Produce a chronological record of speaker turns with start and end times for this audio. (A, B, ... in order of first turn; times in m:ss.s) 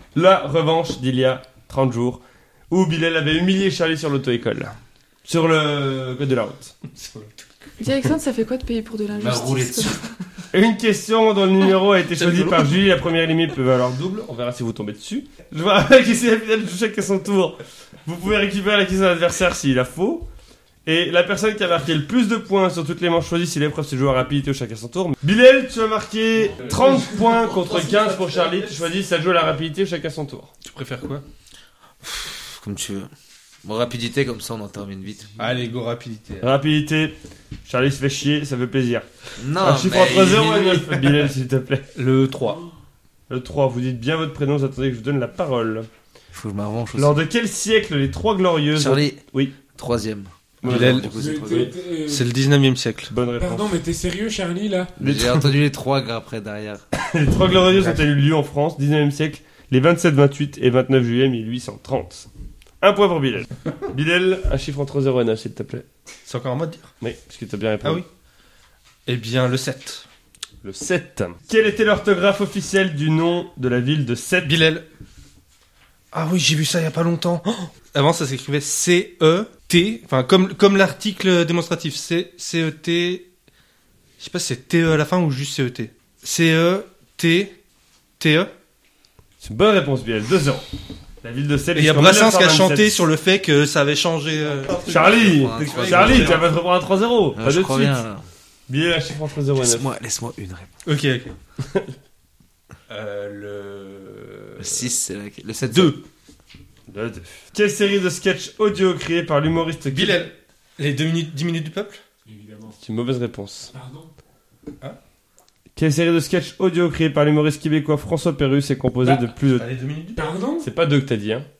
0:00.1-0:06.8 A
0:06.9-0:07.3 B
0:07.8-0:10.1 C
0:09.1-0:10.0 D
0:10.5-0:20.3 A
0:12.2-0:12.7 D
0:20.8-0:30.5 A
0:26.7-0:26.9 E
0:27.6-0:28.7 D
0:30.6-0:31.2 B
0:32.0-0:33.1 D
0:33.6-0:35.3 D
0:35.4-0:36.5 B
0:36.4-0:41.9 A
0:39.4-0:41.3 D
0:41.9-0:42.6 B
0:43.3-0:45.9 A
0:46.3-0:47.2 D
0:46.9-0:49.6 A
0:48.7-0:51.7 D
0:50.6-0:51.7 A
0:50.6-0:51.1 B
0:51.0-0:52.3 E
0:52.1-0:53.1 B
0:53.1-0:53.8 A
0:53.4-0:54.9 E
0:55.0-0:56.8 D
0:55.0-0:55.5 A
0:56.9-1:02.3 A
1:02.8-1:05.8 A
1:06.2-1:06.9 B
1:07.0-1:08.0 A
1:09.0-1:10.0 B
1:10.6-1:14.5 A
1:14.4-1:14.8 B
1:16.1-1:23.3 B
1:24.2-1:27.6 B
1:28.2-1:28.5 B
1:29.4-1:30.6 A
1:31.2-1:32.9 A
1:31.7-1:36.5 B
1:34.7-1:36.5 D
1:34.7-1:38.0 A
1:37.3-1:38.2 D
1:38.7-1:39.9 A
1:39.6-1:40.8 D
1:40.8-1:41.3 B
1:41.6-1:41.9 A
1:42.9-1:44.9 B
1:44.6-1:46.0 D
1:45.7-1:46.0 B
1:46.9-1:50.3 A
1:49.9-1:52.0 B
1:52.3-1:52.8 E
1:52.7-1:53.7 A
1:53.7-1:54.1 E
1:55.8-1:59.7 A
1:59.0-1:59.3 E
1:59.5-2:00.3 B
2:00.1-2:00.7 E
2:00.6-2:01.5 A